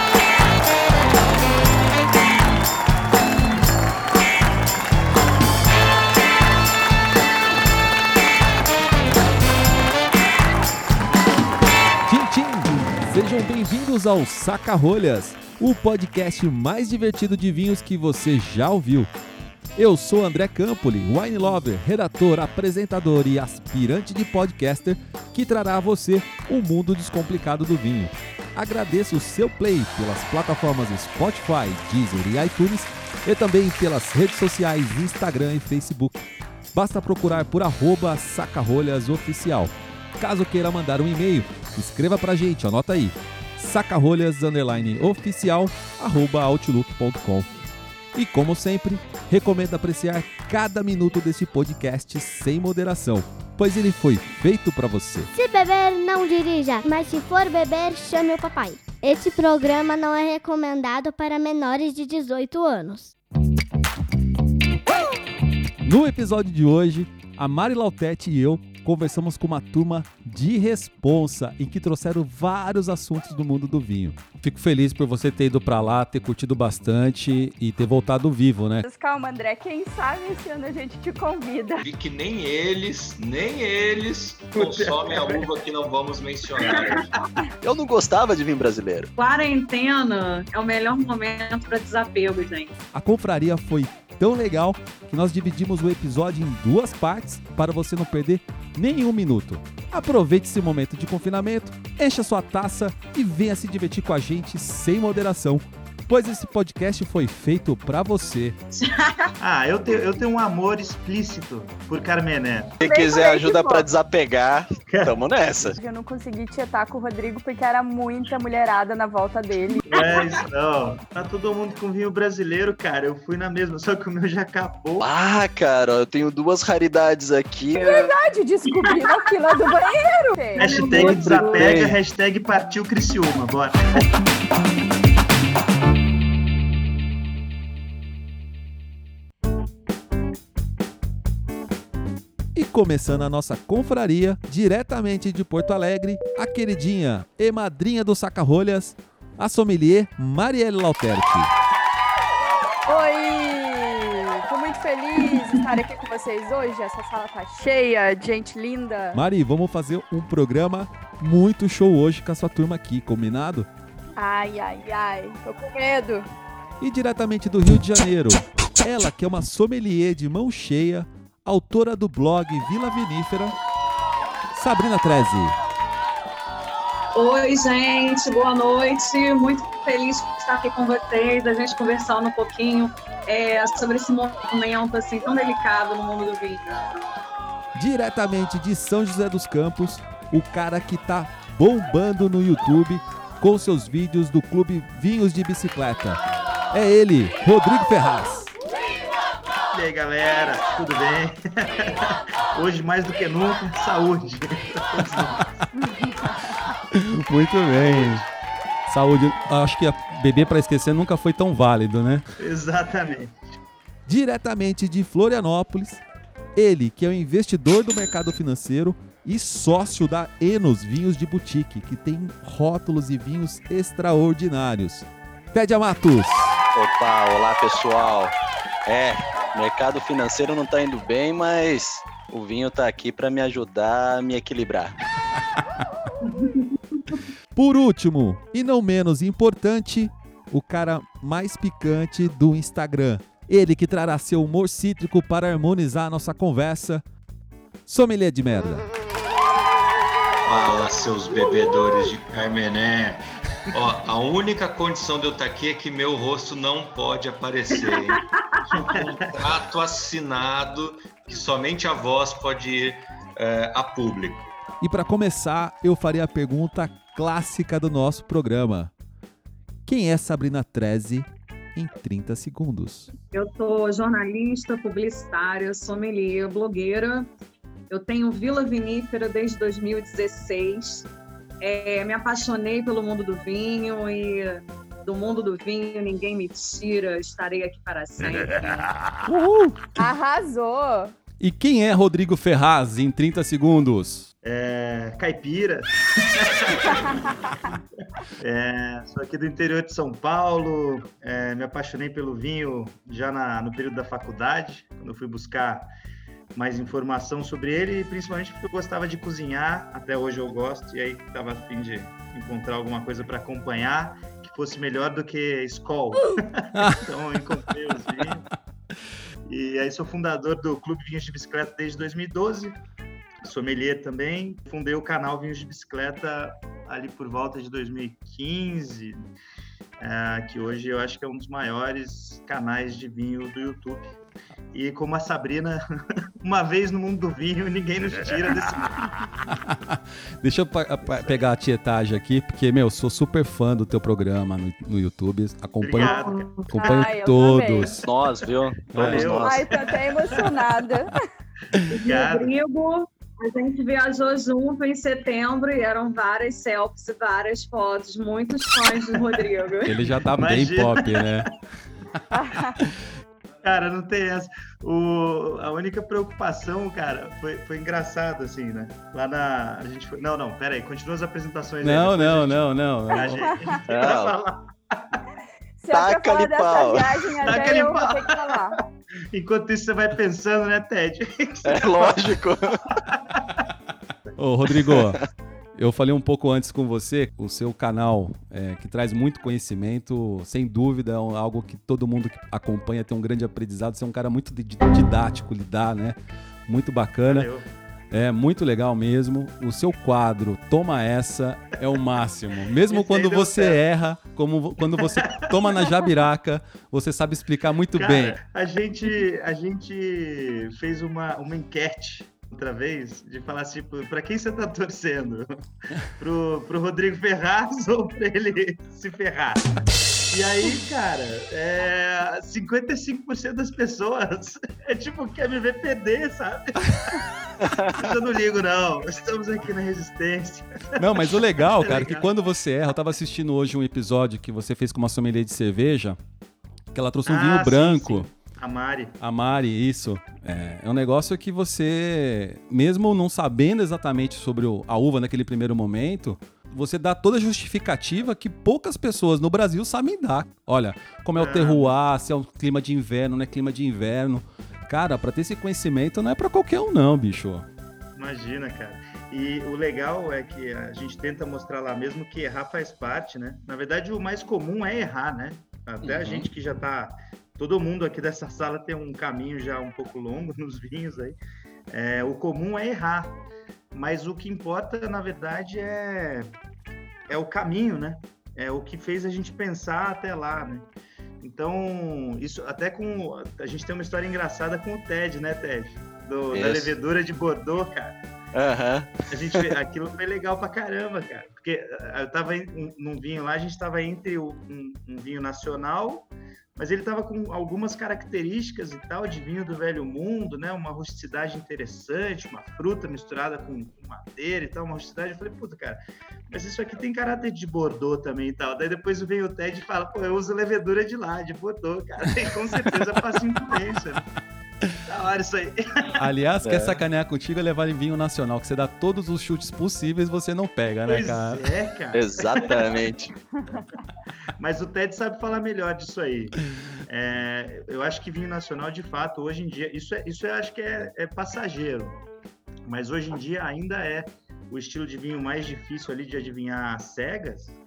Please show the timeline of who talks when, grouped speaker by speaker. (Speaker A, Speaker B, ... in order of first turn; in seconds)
Speaker A: 12.1-19.1, 19.8-36.2, 36.7-47.6, 48.1-55.3, 65.8-78.8, 92.9-108.6, 142.6-151.5, 159.1-163.7, 166.8-173.6, 174.6-175.5, 187.8-196.2, 196.7-198.5, 206.9-208.2, 208.9-212.2, 214.1-216.0, 216.6-226.6, 237.6-247.0, 247.9-248.9, 264.8-268.9, 269.9-273.1, 289.2-289.9, 291.4-294.3, 339.5-348.1, 348.9-349.3, 359.9-361.5, 371.8-373.5, 384.4-385.2, 385.8-396.2, 396.7-397.5, 398.1-408.4, 431.0-436.2, 436.9-438.3, 439.2-457.7, 516.2-521.6
Speaker B: 55.3-63.1
Speaker C: 78.8-81.8, 115.8-120.2, 127.7-130.8, 152.9-159.2, 164.2-166.3, 290.0-291.1, 346.8-348.0, 349.3-351.1, 362.3-362.8, 375.8-378.8
Speaker D: 81.8-87.2, 250.5-258.2, 258.8-264.5
Speaker E: 84.6-85.5, 109.4-112.8, 119.9-125.1, 130.6-134.1, 199.7-201.9, 202.5-205.6, 207.8-208.2, 212.4-213.3, 258.7-259.3, 294.4-297.2, 298.4-305.9, 306.5-318.5, 319.5-322.8, 323.4-329.2, 330.0-334.1, 334.7-335.8, 336.4-339.1, 345.8-347.1, 348.9-350.4, 352.0-352.5, 360.3-361.5, 363.6-375.2, 377.4-378.7, 379.3-382.3, 383.1-383.4, 397.3-397.6, 402.9-403.8, 405.0-405.5, 407.9-415.6, 416.2-427.2, 427.9-432.3, 437.3-439.1, 451.4-451.9, 458.2-471.4, 471.9-473.4, 473.9-476.5, 477.3-480.9, 481.4-488.1, 489.3-514.3, 515.1-516.2, 521.1-522.9, 524.6-532.2, 532.9-537.8
Speaker F: 87.6-89.1, 112.8-115.8, 125.0-128.1, 130.9-132.0, 226.7-228.3, 228.9-235.0, 348.0-349.8, 373.9-374.4, 375.9-377.3, 381.7-382.8, 427.6-428.1, 466.0-466.5, 486.5-486.9, 488.5-489.7, 516.6-517.0, 522.1-523.3
Speaker G: 89.2-92.7, 108.7-109.3, 112.8-113.9, 130.6-131.7, 177.2-186.8, 236.3-237.2, 273.3-277.3, 277.9-281.1, 281.6-288.9, 346.0-346.6, 351.9-360.0